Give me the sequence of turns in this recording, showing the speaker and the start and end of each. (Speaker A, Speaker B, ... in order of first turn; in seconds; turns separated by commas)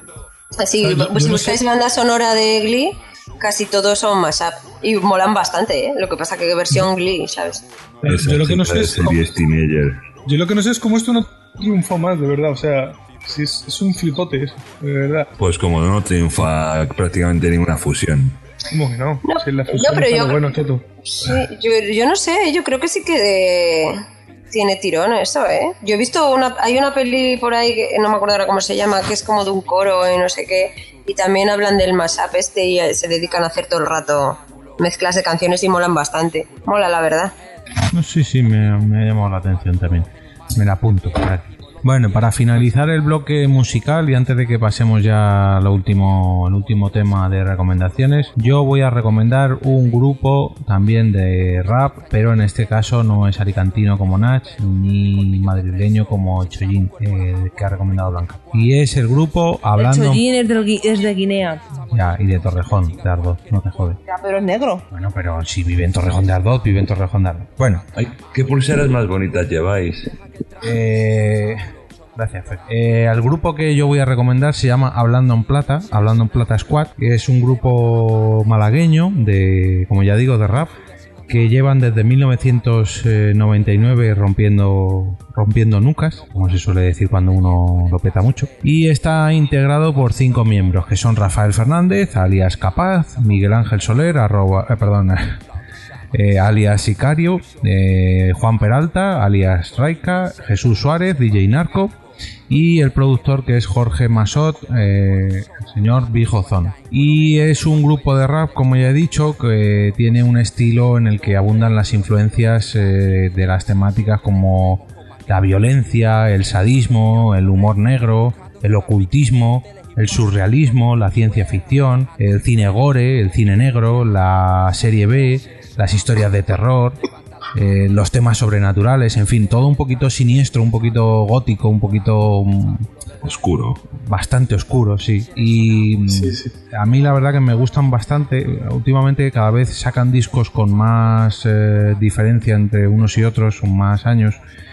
Speaker A: 0.6-7.6, Speaker B: 0.8-1.6, Speaker B: 8.0-9.2, Speaker C: 8.1-10.0, Speaker B: 10.2-15.3, Speaker C: 15.4-18.4, Speaker B: 18.7-20.8, Speaker A: 19.3-20.5, Speaker A: 21.1-37.3, Speaker D: 37.9-60.2, Speaker E: 59.8-61.6, Speaker D: 61.9-64.0, Speaker E: 64.1-64.8, Speaker D: 64.9-67.9, Speaker C: 68.0-70.1, Speaker D: 70.6-71.7, Speaker D: 72.2-80.7, Speaker D: 81.3-95.4, Speaker D: 96.1-102.0, Speaker D: 102.5-127.0, Speaker D: 127.5-132.9, Speaker C: 133.2-133.8, Speaker D: 133.9-144.4, Speaker B: 136.1-136.6